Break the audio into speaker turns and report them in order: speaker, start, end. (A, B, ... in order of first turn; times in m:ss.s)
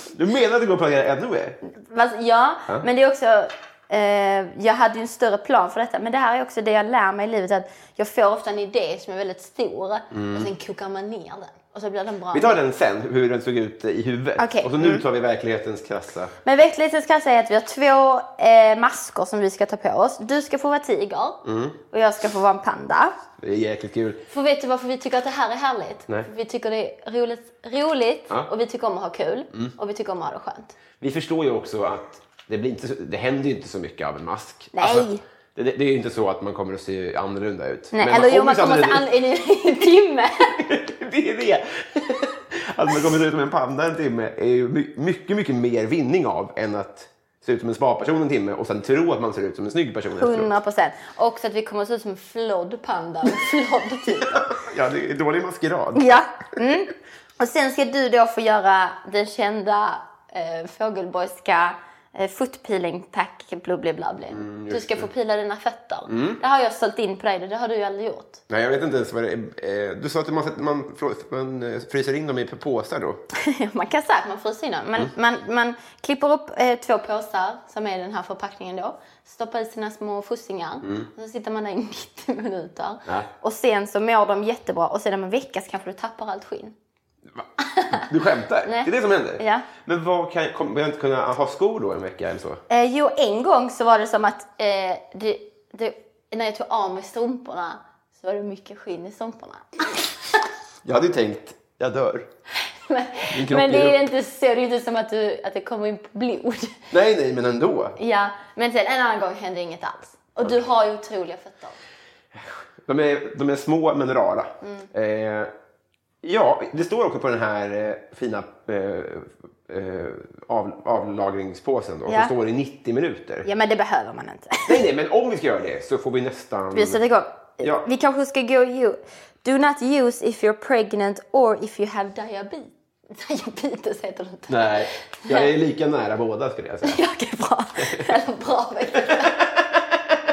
0:00.1-0:01.6 A
0:01.6-0:12.6 B
0:10.1-0:10.5 A
0:12.3-0:16.3 A
0:14.4-0:15.0 B
0:16.4-0:23.1 B
0:21.4-0:21.8 A
0:23.4-0:24.3 A
0:24.3-0:30.8 B
0:31.0-0:39.1 A
0:34.7-0:35.2 B
0:37.9-0:40.6 B
0:40.6-0:50.5 A
0:50.2-0:54.5 B
0:54.1-0:56.1 A
0:56.0-1:08.4 B
1:04.3-1:05.1 A
1:06.1-1:06.4 A
1:08.5-1:13.2 A
1:13.3-1:26.8 B
1:20.8-1:21.1 A
1:27.4-1:32.6 A
1:27.6-1:28.0 B
1:28.6-1:29.7 B
1:32.7-1:40.2 B
1:40.8-1:42.3 A
1:42.6-1:46.8 B
1:43.3-1:44.0 A
1:46.9-1:48.0 A
1:48.0-1:51.8 B
1:52.4-1:55.5 A
1:54.6-1:54.9 B
1:56.2-2:03.5 A
2:02.1-2:02.3 B
2:03.4-2:04.9 B
2:04.7-2:07.0 A
2:06.7-2:15.5 B
2:07.6-2:07.9 A
2:14.5-2:17.0 A
2:16.8-2:19.4 B
2:17.8-2:18.1 A